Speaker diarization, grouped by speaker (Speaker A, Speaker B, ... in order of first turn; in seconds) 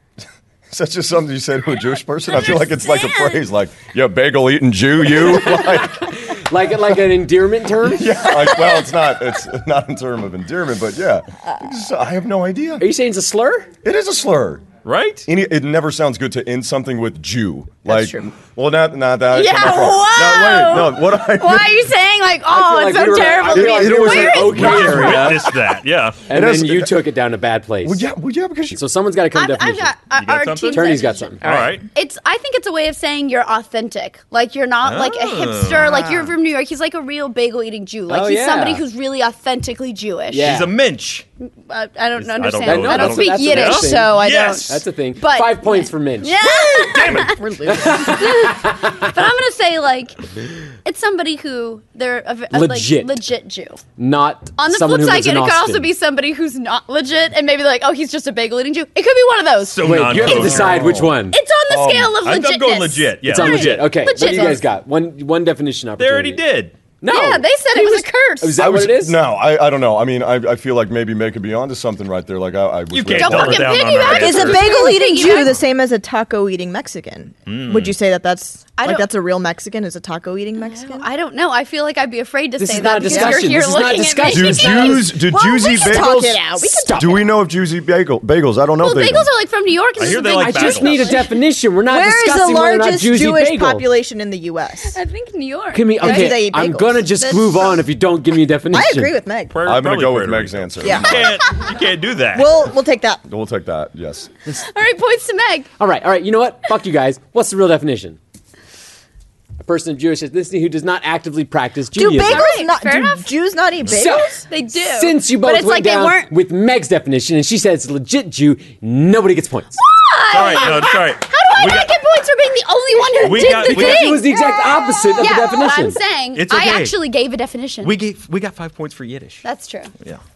Speaker A: 0.7-6.2, 7.9-12.9, 13.8-14.7, 15.3-21.9, 23.4-25.5, 26.3-27.0, 27.8-28.8, 60.6-61.2, 61.7-62.2, 68.6-73.8, 84.3-86.4, 87.0-89.3, 99.6-101.4, 103.3-104.3
Speaker B: 5.5-8.1, 12.8-13.7, 22.5-25.6, 26.3-28.0, 28.7-29.9, 30.7-31.5, 38.1-38.8, 40.3-40.7, 42.6-46.4, 47.7-49.1, 52.5-53.1, 54.0-55.9, 59.8-61.4, 63.3-66.4, 67.0-67.5, 68.4-69.2, 82.6-85.0, 86.0-87.3, 90.0-93.9, 95.7-99.2, 105.8-108.2, 109.6-112.5, 113.9-119.8, 123.4-126.0
Speaker C: 14.8-15.3, 24.3-26.2, 30.1-31.9, 34.8-36.0, 40.4-41.2, 42.2-44.8, 46.9-47.4, 59.6-61.0, 62.2-64.1, 66.0-66.8, 72.9-74.7, 77.5-78.0, 90.0-91.2, 99.5-102.7, 120.3-122.0, 123.2-124.2, 126.3-127.0, 127.8-129.4
Speaker D: 17.9-18.3, 35.7-36.3, 43.9-44.7, 46.4-48.5, 64.2-64.6, 67.8-68.0, 74.0-81.1, 83.1-83.4, 85.0-87.1, 91.9-95.0, 96.0-97.7, 98.7-99.6, 100.8-101.6, 102.3-103.2, 111.9-114.5
Speaker E: 19.3-25.4, 29.3-31.3, 31.9-40.6, 41.5-44.6, 45.2-50.2, 50.8-53.8, 54.6-60.7, 61.3-64.6, 67.1-68.5, 73.1-75.6, 78.8-79.1, 80.6-85.1, 88.8-91.3, 94.8-96.5, 97.2-97.7, 104.5-105.7, 112.2-113.3, 114.0-116.3, 119.8-128.0, 129.4-129.9